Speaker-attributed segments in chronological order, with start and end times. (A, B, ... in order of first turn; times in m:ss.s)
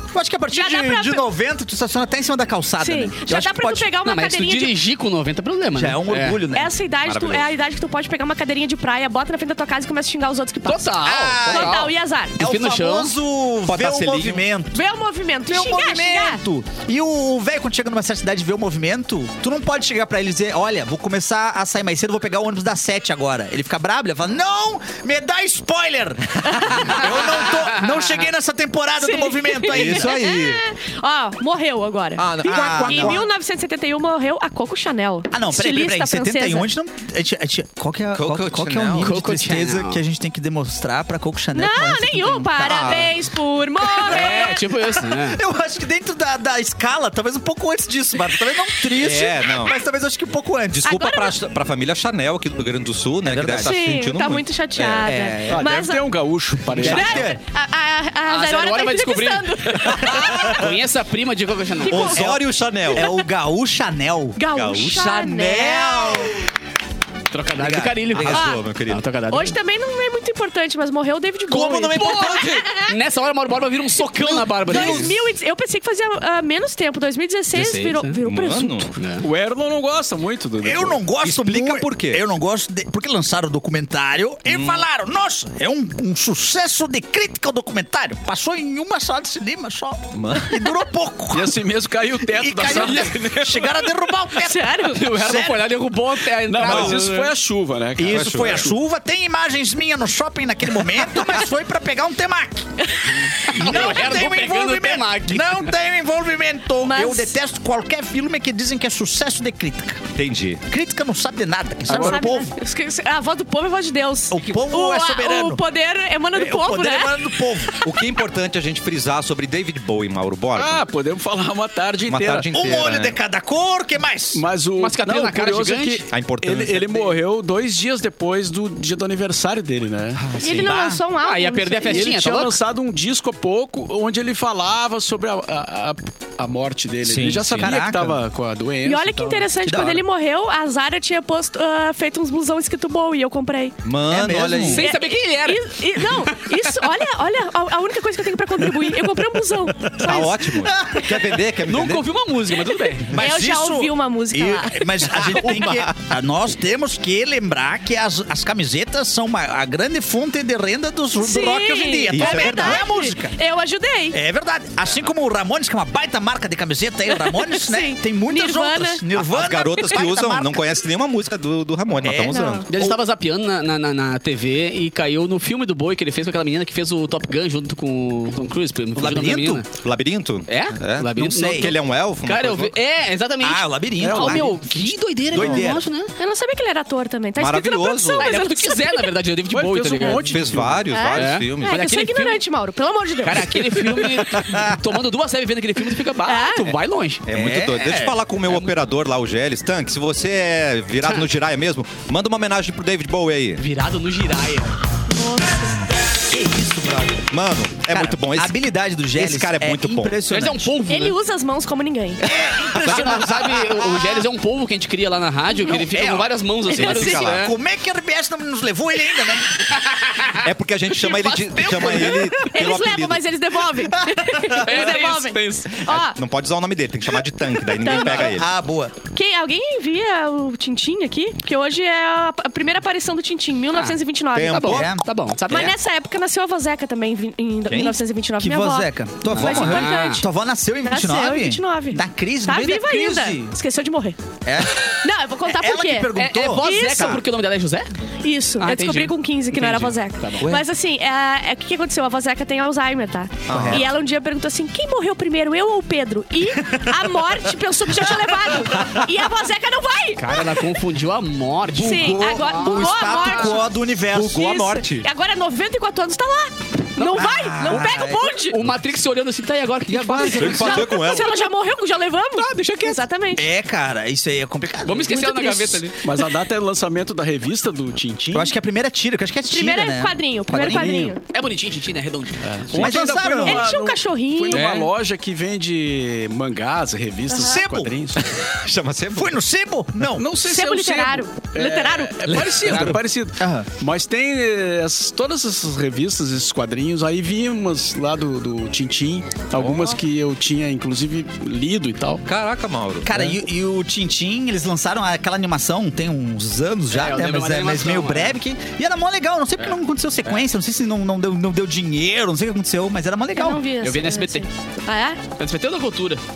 0:00.1-0:03.9 A
0:00.5-0:01.2 B
0:02.8-0:04.8 B
0:04.0-0:06.4 C
0:05.7-0:06.7 A
0:06.5-0:12.4 B
0:07.0-0:07.5 D
0:10.6-0:13.1 C
0:11.0-0:14.8 A
0:13.7-0:14.4 D
0:14.7-0:16.4 B
0:15.5-0:30.1 A
0:26.6-0:27.0 B
0:29.0-0:36.7 B
0:29.7-0:30.6 D
0:32.2-0:33.3 D
0:32.4-0:33.2 A
0:35.3-0:43.0 A
0:38.1-0:39.1 D
0:39.0-0:40.0 C
0:41.5-0:44.6 B
0:42.6-0:43.2 D
0:43.8-0:51.0 A
0:44.0-0:45.4 C
0:48.9-0:49.8 D
0:50.7-0:55.1 D
0:50.8-0:51.4 B
0:53.2-0:53.8 A
0:53.6-0:56.1 B
0:55.0-0:55.7 A
0:55.5-0:57.2 E
0:56.7-0:57.4 A
0:56.8-1:00.8 B
0:58.3-1:02.2 C
1:01.8-1:02.3 B
1:01.9-1:03.1 D
1:02.1-1:06.4 A
1:02.9-1:03.2 B
1:04.4-1:06.3 B
1:04.5-1:05.7 D
1:07.3-1:09.6 C
1:07.6-1:08.1 A
1:08.1-1:09.0 D
1:08.3-1:08.6 B
1:09.3-1:12.9 B
1:11.5-1:12.7 D
1:11.9-1:15.1 C
1:14.2-1:18.9 B
1:14.7-1:15.2 D
1:17.5-1:18.2 C
1:18.2-1:18.9 D
1:19.0-1:19.2 C
1:19.2-1:21.0 E
1:20.6-1:31.6 A
1:21.2-1:22.2 D
1:24.5-1:24.8 D
1:30.1-1:30.7 D
1:31.3-1:33.6 E
1:32.3-1:35.6 A
1:32.6-1:33.7 C
1:34.4-1:35.0 B
1:34.8-1:37.3 C
1:36.4-1:38.8 E
1:36.6-1:37.0 A
1:38.0-1:42.7 A
1:38.0-1:38.7 D
1:42.9-1:44.1 B
1:43.5-1:45.7 C
1:43.5-1:50.0 A
1:46.8-1:47.3 B
1:50.1-1:50.6 D
1:50.7-1:52.5 A
1:51.9-1:52.3 E
1:51.9-1:57.3 B
1:54.3-1:55.6 A
1:56.3-1:57.8 A
1:57.8-2:00.8 D
2:00.6-2:02.5 E
2:02.0-2:03.2 D
2:02.5-2:04.4 A
2:04.3-2:10.3 E
2:04.8-2:06.0 C
2:06.1-2:07.1 D
2:10.3-2:10.7 D
2:10.4-2:11.0 A
2:10.4-2:12.2 B
2:11.2-2:12.6 C
2:11.8-2:19.8 E
2:17.0-2:17.7 D
2:17.6-2:18.2 A
2:18.8-2:23.8 B
2:19.6-2:20.0 A
2:23.8-2:24.8 D
2:24.1-2:24.8 A
2:24.6-2:26.5 C
2:24.8-2:30.5 B
2:29.9-2:32.1 D
2:30.0-2:31.3 A
2:31.6-2:33.2 C
2:33.1-2:43.4 A
2:33.1-2:35.1 B
2:35.1-2:35.9 D
2:41.2-2:44.2 B
2:42.1-2:42.8 D
2:44.1-2:50.3 A
2:47.1-2:49.0 B
2:49.2-2:52.7 D
2:49.7-2:50.5 B
2:52.0-2:52.9 A
2:52.3-2:52.7 B
2:52.7-2:59.7 C
2:59.0-2:59.6 A
2:59.8-3:02.7 D
3:00.5-3:06.1 C
3:01.2-3:01.7 A
3:03.4-3:05.8 A
3:04.0-3:04.4 E
3:05.3-3:05.7 D
3:06.2-3:09.1 B
3:07.4-3:08.3 D
3:08.2-3:10.4 C
3:09.5-3:10.9 E
3:10.2-3:11.8 D
3:10.9-3:14.1 B
3:11.1-3:12.4 C
3:13.2-3:17.2 C
3:14.3-3:14.7 A
3:16.2-3:16.7 B
3:17.3-3:23.6 D
3:17.3-3:18.2 A
3:17.8-3:18.7 C
3:23.6-3:24.7 C
3:25.1-3:25.8 B
3:26.2-3:27.3 A
3:27.3-3:28.6 D
3:27.9-3:30.7 A
3:29.1-3:30.2 D
3:30.3-3:31.2 C
3:30.9-3:32.2 B
3:32.2-3:33.9 A
3:32.7-3:37.5 C
3:32.8-3:33.2 D
3:35.6-3:39.6 A
3:36.7-3:37.2 B
3:36.7-3:37.5 D
3:39.6-3:42.5 C
3:40.4-3:43.3 D
3:41.7-3:46.2 B
3:44.1-3:44.4 A
3:44.5-3:45.9 C
3:45.9-3:48.5 D
3:47.7-3:48.3 B
3:47.8-3:49.0 A
3:49.1-3:54.7 B
3:53.7-3:55.7 C
3:54.3-3:54.9 D
3:54.7-3:55.0 A
3:55.5-4:00.3 B
3:57.7-3:58.0 D
3:58.4-4:03.5 A
3:59.3-4:00.2 C
4:00.8-4:04.2 B
4:04.4-4:07.2 A
4:04.9-4:07.2 B
4:06.1-4:07.9 C
4:08.2-4:20.5 B
4:08.6-4:10.5 C
4:13.5-4:13.9 D
4:13.5-4:13.9 A
4:20.2-4:23.6 C
4:21.7-4:24.8 A
4:21.8-4:23.7 B
4:24.1-4:25.0 D
4:24.3-4:28.6 B
4:27.0-4:30.9 C
4:27.1-4:28.3 A
4:29.9-4:31.4 D
4:30.1-4:30.6 A
4:30.4-4:33.4 B
4:32.3-4:33.0 C
4:33.3-4:35.2 A
4:34.8-4:36.0 C
4:35.1-4:35.9 B
4:36.0-4:38.5 E
4:38.3-4:41.1 A
4:39.5-4:41.2 B
4:40.5-4:41.1 E
4:41.3-4:43.0 C
4:42.4-4:48.4 E
4:42.7-4:43.7 A
4:43.4-4:44.7 B
4:44.5-4:44.9 C
4:47.3-4:47.6 B
4:47.4-4:47.9 A
4:48.3-4:49.4 D
4:49.1-4:50.2 A
4:50.2-5:02.2 E
4:50.4-4:52.4 B
4:52.3-4:53.0 D
4:52.6-4:53.7 A
5:02.2-5:03.1 D
5:03.0-5:13.6 A
5:03.1-5:03.4 E
5:06.9-5:08.4 C
5:13.3-5:15.2 B
5:13.8-5:14.4 C
5:15.3-5:16.2 C